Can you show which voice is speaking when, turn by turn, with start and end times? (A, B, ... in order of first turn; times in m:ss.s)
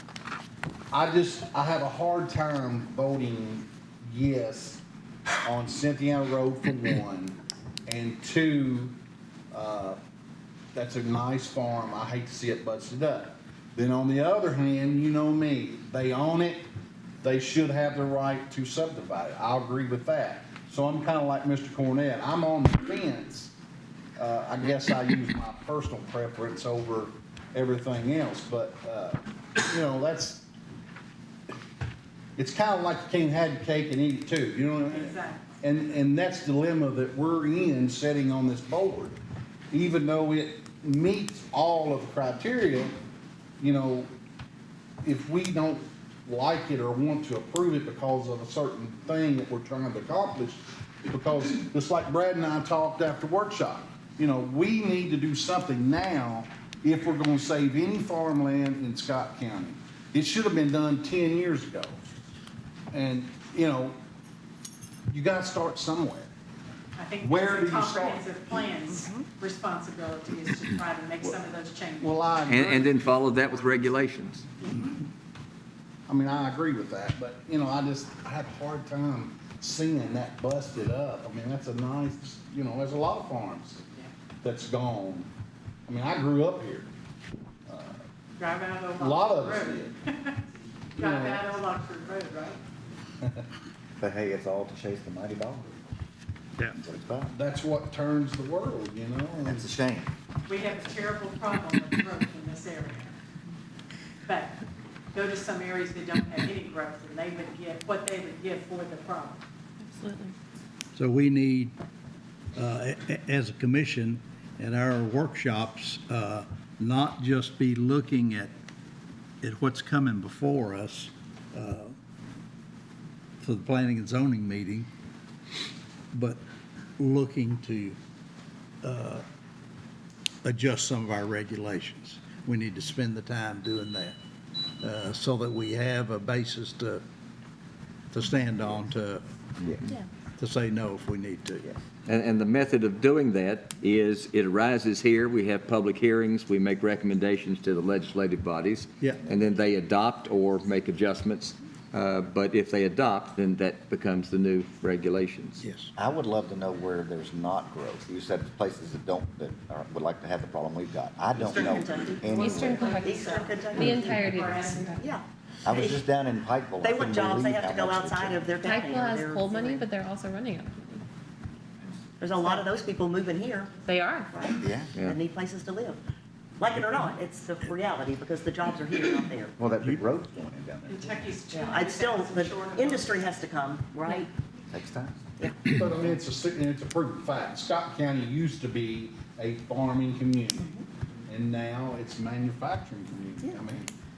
0:00.9-0:04.8 A
0:05.4-0:09.0 A
0:09.5-0:10.0 A
0:10.7-0:16.7 A
0:17.2-0:23.5 A
0:24.2-0:30.5 A
0:32.4-0:39.2 A
0:34.8-0:35.5 B
0:39.7-0:42.9 A
0:43.6-0:44.1 A
0:45.0-1:02.0 A
1:02.9-1:04.0 A
1:05.1-1:06.3 A
1:07.0-1:12.3 B
1:07.2-1:08.3 A
1:08.9-1:09.3 C
1:12.0-1:13.0 A
1:12.5-1:14.5 D
1:16.1-1:23.8 A
1:24.4-1:25.3 A
1:25.9-1:26.9 A
1:27.7-1:28.0 A
1:28.4-1:30.4 B
1:29.0-1:30.0 A
1:31.0-1:31.5 A
1:31.0-1:32.6 B
1:34.0-1:35.8 E
1:36.8-1:37.4 E
1:37.3-1:39.7 A
1:39.4-1:40.1 E
1:40.5-1:43.2 B
1:44.2-1:44.6 B
1:45.1-1:49.4 B
1:49.8-1:50.3 F
1:50.9-1:51.8 G
1:52.5-1:58.5 G
1:59.4-2:01.9 G
2:03.4-2:04.9 G
2:06.1-2:06.4 G
2:07.0-2:08.0 G
2:08.8-2:09.2 G
2:10.4-2:14.2 G
2:14.8-2:17.0 G
2:18.1-2:19.2 G
2:19.6-2:19.8 E
2:19.8-2:21.8 G
2:22.1-2:35.6 D
2:35.6-2:35.9 G
2:36.0-2:42.8 E
2:41.4-2:44.0 C
2:42.3-2:45.1 B
2:42.3-2:45.1 F
2:43.8-2:44.1 A
2:45.0-2:46.0 C
2:45.6-2:48.4 E
2:46.8-2:49.8 C
2:48.6-2:51.1 F
2:52.2-2:53.7 C
2:53.8-2:54.3 F
2:54.3-2:56.0 C
2:54.6-2:54.9 E
2:56.6-2:59.6 C
2:59.6-3:01.3 E
3:00.8-3:03.4 B
3:01.5-3:04.3 C
3:04.7-3:05.3 E
3:05.4-3:05.7 C
3:05.7-3:10.8 A
3:10.6-3:10.8 C
3:11.3-3:13.9 A
3:13.4-3:13.7 C